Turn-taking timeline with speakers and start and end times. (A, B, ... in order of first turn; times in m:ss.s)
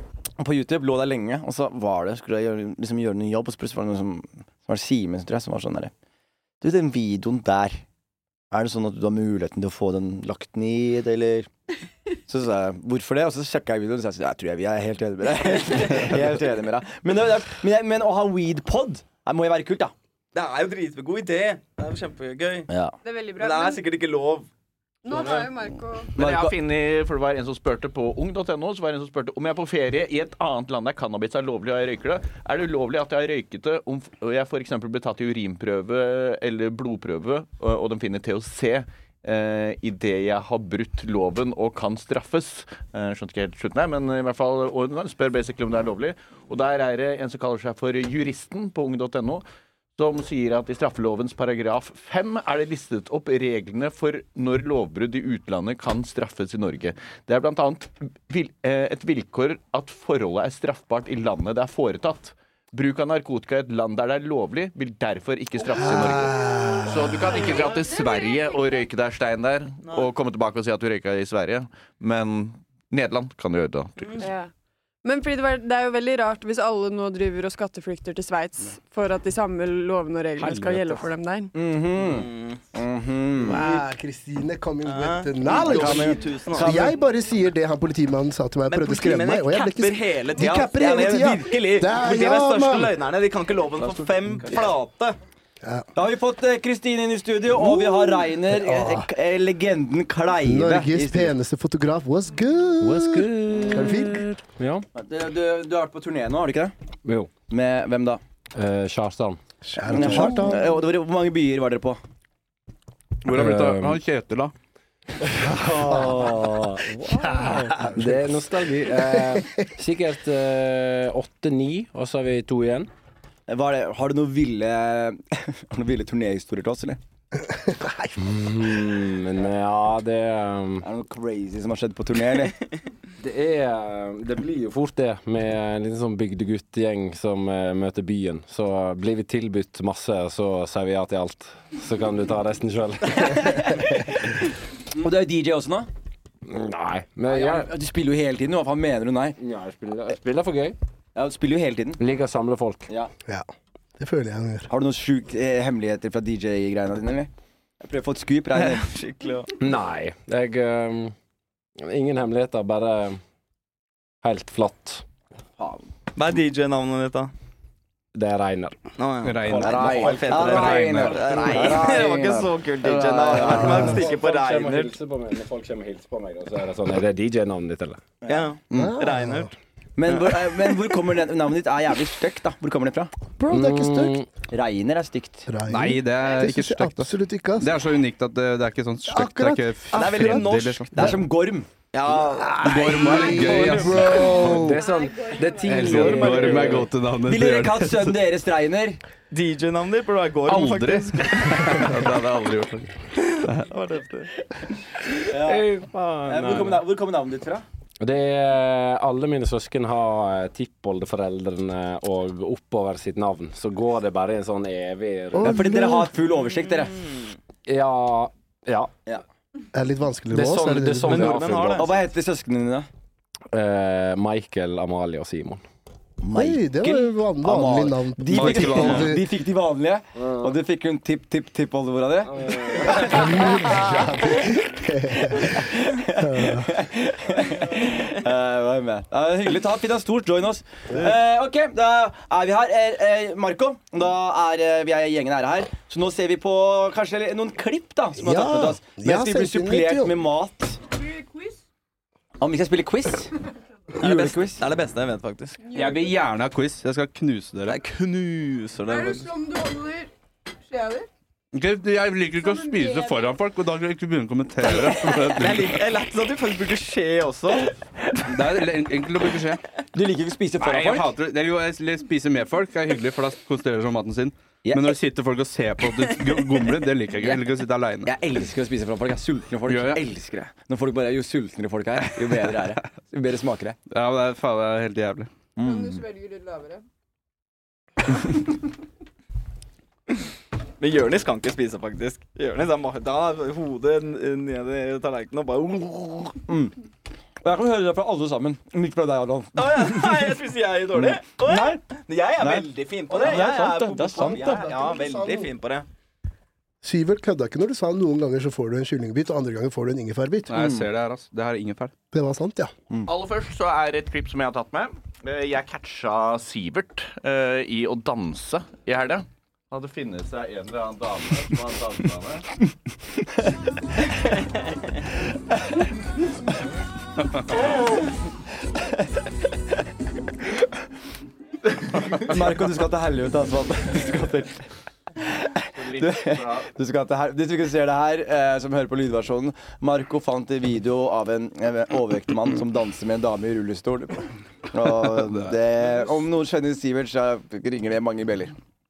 0:00.4-0:05.9 A
0:06.6-0:07.8 A
0:08.5-0:11.5 A
0:12.3-0:19.9 A
0:20.3-0:22.7 B
0:22.7-0:22.9 A
0:23.0-0:23.8 C
0:23.4-0:24.5 B
0:25.0-0:26.1 C
0:25.1-0:25.5 B
0:26.1-0:49.4 D
0:26.2-0:26.5 A
0:50.0-1:14.2 D
1:05.8-1:07.2 E
1:09.8-1:10.1 B
1:14.2-1:14.5 C
1:15.0-1:21.5 C
1:20.4-1:20.8 F
1:21.5-1:23.6 A
1:22.0-1:22.6 B
1:23.4-1:32.9 E
1:24.8-1:26.9 B
1:25.6-1:26.9 A
1:28.7-1:35.2 B
1:35.9-1:41.3 A
1:37.6-1:39.1 E
1:40.4-1:44.4 E
1:42.8-1:44.8 F
1:42.9-1:44.1 A
1:44.9-1:46.7 A
1:47.0-1:47.3 F
1:47.5-1:48.2 A
1:48.5-1:49.4 F
1:49.6-1:50.7 E
1:49.9-1:52.0 A
1:49.9-1:50.4 F
1:53.2-1:54.5 G
1:53.3-1:54.0 F
1:55.4-2:02.9 F
1:55.6-1:56.3 A
1:55.9-1:56.2 E
1:57.1-1:58.4 E
1:59.0-1:59.7 E
2:03.5-2:07.0 A
2:07.3-2:08.5 E
2:08.2-2:10.8 F
2:10.8-2:12.5 A
2:13.2-2:24.0 F
2:23.3-2:24.3 A
2:25.0-2:25.9 A
2:26.4-2:27.7 F
2:27.3-2:29.4 A
2:29.4-2:30.8 F
2:31.2-2:32.0 A
2:32.0-2:32.9 F
2:33.2-2:34.7 E
2:34.7-2:37.3 A
2:37.8-2:38.8 A
2:38.5-2:39.5 B
2:39.6-2:41.1 F
2:41.8-2:43.2 F
2:44.2-2:45.0 F
2:46.2-2:47.3 B
2:48.1-2:48.8 F
2:49.0-2:54.9 B
2:49.2-2:51.3 G
2:49.6-2:58.1 F
2:49.6-2:54.0 A
2:58.2-2:58.9 A
2:58.3-2:59.5 B
2:58.7-2:59.5 E
3:00.0-3:03.1 A
3:03.4-3:04.2 E
3:03.5-3:04.2 F
3:04.5-3:05.5 A
3:05.5-3:07.7 E
3:05.7-3:10.9 G
3:09.0-3:11.2 E
3:09.9-3:11.1 B
3:10.9-3:11.7 A
3:11.9-3:14.5 B
3:12.2-3:14.8 E
3:12.6-3:14.6 G
3:14.2-3:16.9 F
3:14.9-3:15.5 C
3:15.6-3:18.2 G
3:15.7-3:16.9 B
3:17.2-3:19.0 A
3:19.3-3:21.9 B
3:20.4-3:22.9 G
3:23.1-3:24.3 B
3:25.2-3:25.7 A
3:25.5-3:26.6 F
3:25.9-3:26.7 B
3:26.2-3:27.6 A
3:28.0-3:35.6 F
3:35.3-3:36.1 E
3:35.4-3:37.1 A
3:37.6-3:38.9 F
3:39.7-3:41.6 E
3:40.3-3:41.8 F
3:41.0-3:41.9 B
3:41.8-3:42.9 A
3:43.5-3:45.6 F
3:46.2-3:54.0 A
3:46.3-3:49.2 E
3:48.3-3:49.2 G
3:50.2-3:50.5 F
3:52.4-3:52.9 F
3:52.9-3:56.7 E
3:55.3-4:10.8 A
4:08.2-4:10.1 E
4:11.0-4:11.5 C
4:12.4-4:13.3 A
4:14.0-4:15.6 B
4:14.0-4:14.6 A
4:15.6-4:16.1 C
4:15.7-4:17.8 G
4:17.7-4:19.3 B
4:18.9-4:20.1 C
4:20.7-4:21.1 C
4:21.5-4:25.8 G
4:22.4-4:23.3 C
4:24.7-4:27.7 B
4:28.2-4:29.6 G
4:29.9-4:31.1 A
4:30.6-4:38.1 G
4:34.6-4:35.0 A
4:38.0-4:43.8 A
4:39.7-4:40.0 G
4:43.9-4:45.3 G
4:45.6-4:46.0 A
4:45.6-4:46.8 C
4:50.8-4:56.4 B
4:56.4-4:56.7 A
4:57.4-5:00.3 A
4:59.6-5:05.8 B
5:00.9-5:01.8 A
5:02.4-5:04.7 A
5:04.2-5:05.5 E
5:06.8-5:10.5 E
5:10.5-5:11.9 G
5:10.5-5:10.8 A
5:12.1-5:12.7 E
5:13.0-5:22.4 D
5:32.1-5:34.6 A
5:35.2-5:48.5 A
5:35.7-5:36.7 D